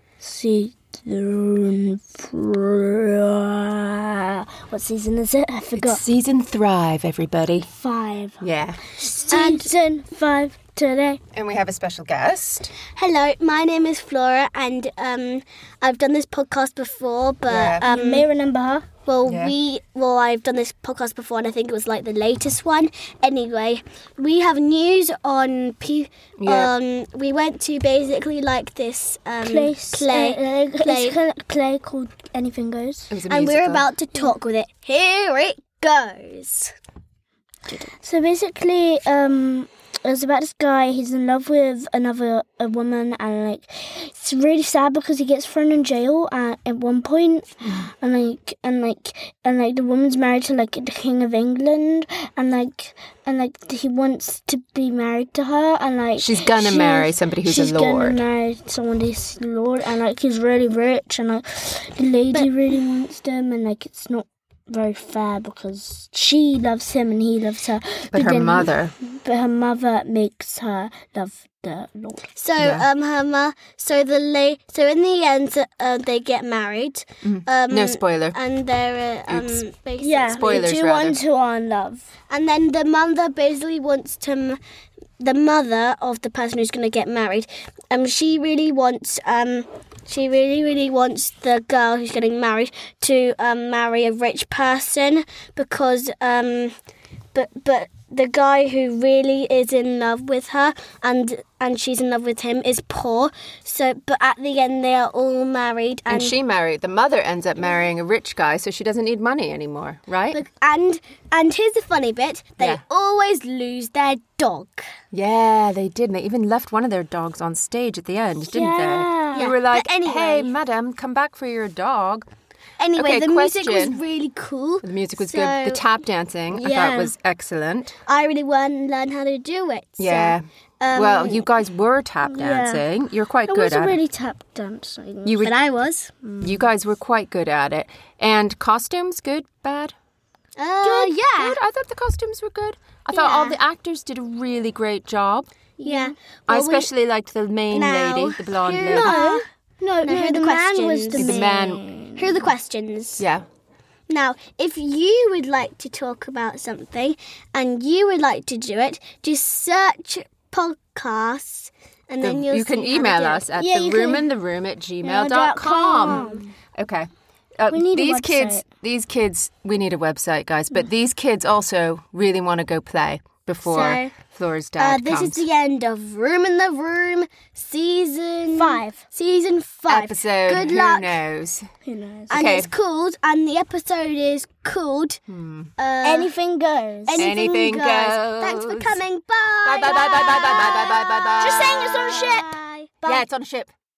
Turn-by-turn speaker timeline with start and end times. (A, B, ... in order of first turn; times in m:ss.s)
0:00.2-0:06.0 A
0:05.8-0:07.7 B
0:07.7-0:08.4 A
0:08.4-0:08.8 B
0:09.1-0:11.2 A
0:09.1-0:09.7 C
0:11.3-0:12.7 B
0:12.9-0:18.3 C
0:17.5-0:17.9 B
0:17.8-0:18.8 A
0:19.0-0:31.2 C
0:19.2-0:19.6 B
0:26.4-0:26.7 B
0:29.4-0:33.1 A
0:33.1-0:33.9 B
0:33.3-0:36.7 C
0:37.8-1:12.3 A
0:56.2-0:58.2 B
1:08.1-1:08.9 B
1:12.3-1:20.9 C
1:12.6-1:12.9 B
1:17.2-1:18.4 B
1:19.3-1:19.6 B
1:20.0-1:22.0 A
1:20.3-1:21.2 B
1:22.3-1:24.6 C
1:25.2-1:36.7 C
1:37.3-1:46.4 C
1:46.1-1:50.4 B
1:50.3-1:54.9 C
1:55.1-2:02.2 B
1:58.5-1:59.5 A
1:59.3-2:00.5 C
2:02.8-2:05.8 C
2:02.9-2:04.0 B
2:04.8-2:08.0 B
2:06.5-2:07.0 A
2:06.7-2:07.0 C
2:08.1-2:11.5 C
2:10.0-2:14.0 B
2:12.2-2:12.8 A
2:13.5-2:15.5 A
2:15.2-2:15.6 B
2:15.4-2:16.1 C
2:16.2-2:16.6 A
2:16.4-2:19.9 B
2:20.6-2:21.6 C
2:20.8-2:21.3 A
2:20.9-2:25.5 B
2:23.1-2:23.6 C
2:25.8-2:26.2 A
2:25.8-2:26.9 C
2:26.5-2:29.2 B
2:27.7-2:29.5 C
2:28.9-2:32.4 A
2:30.0-2:31.5 C
2:31.2-2:31.8 B
2:32.2-2:33.2 C
2:33.2-2:33.4 B
2:34.1-2:44.2 C
2:42.2-2:55.5 B
2:45.0-2:46.5 A
2:45.1-2:46.4 C
2:47.7-2:48.6 A
2:53.6-2:54.1 C
2:54.8-3:01.2 C
2:58.5-2:59.0 A
2:59.9-3:01.7 B
3:01.8-3:02.4 A
3:02.3-3:05.2 C
3:02.3-3:02.7 B
3:05.3-3:05.7 B
3:05.8-3:06.3 C
3:06.0-3:07.3 A
3:07.1-3:13.2 C
3:07.2-3:09.0 B
3:09.6-3:11.8 B
3:11.4-3:12.5 A
3:13.0-3:13.7 B